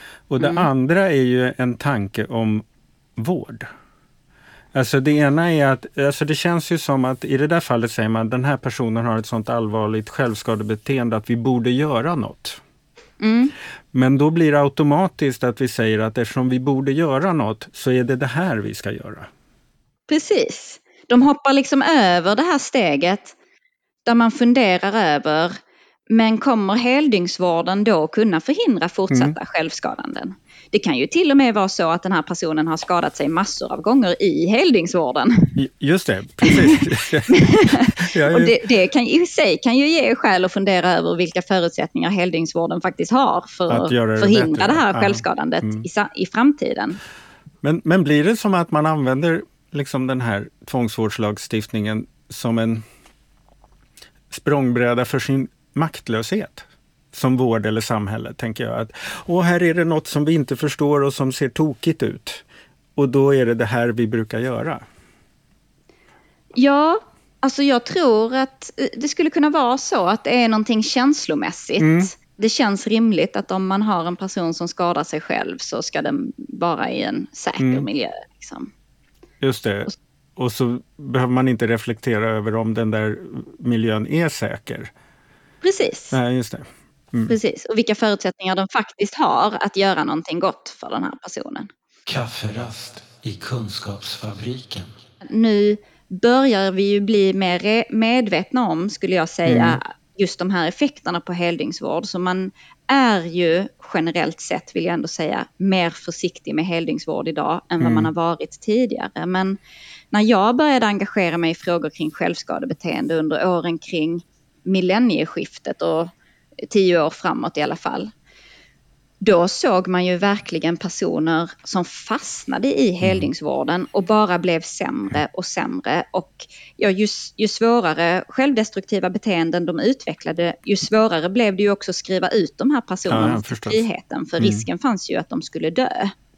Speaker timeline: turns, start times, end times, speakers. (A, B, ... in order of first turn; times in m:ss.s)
0:00.3-0:02.6 A
0:00.4-0:00.7 B
0:03.2-0:03.7 A
0:04.7-0:12.6 A
0:13.2-0:13.5 B
0:13.9-0:19.3 A
0:20.1-0:23.3 B
0:24.0-0:25.6 B
0:26.1-0:35.6 B
0:29.1-0:29.4 A
0:35.6-0:38.6 A
0:36.4-0:47.0 B
0:43.7-0:45.8 A
0:47.6-0:52.8 A
0:54.3-1:02.4 A
1:03.0-1:04.8 A
1:06.6-1:18.7 B
1:11.8-1:12.1 A
1:17.6-1:17.8 A
1:19.4-1:24.9 A
1:25.6-1:26.2 B
1:26.1-1:27.4 A
1:27.3-1:31.7 B
1:32.0-1:34.9 A
1:35.2-1:49.6 B
1:39.4-1:39.8 A
1:47.8-1:48.1 A
1:50.1-1:56.1 B
1:56.7-1:58.1 B
1:59.2-2:16.1 B
2:03.0-2:03.3 A
2:13.1-2:13.8 A
2:14.4-2:14.6 A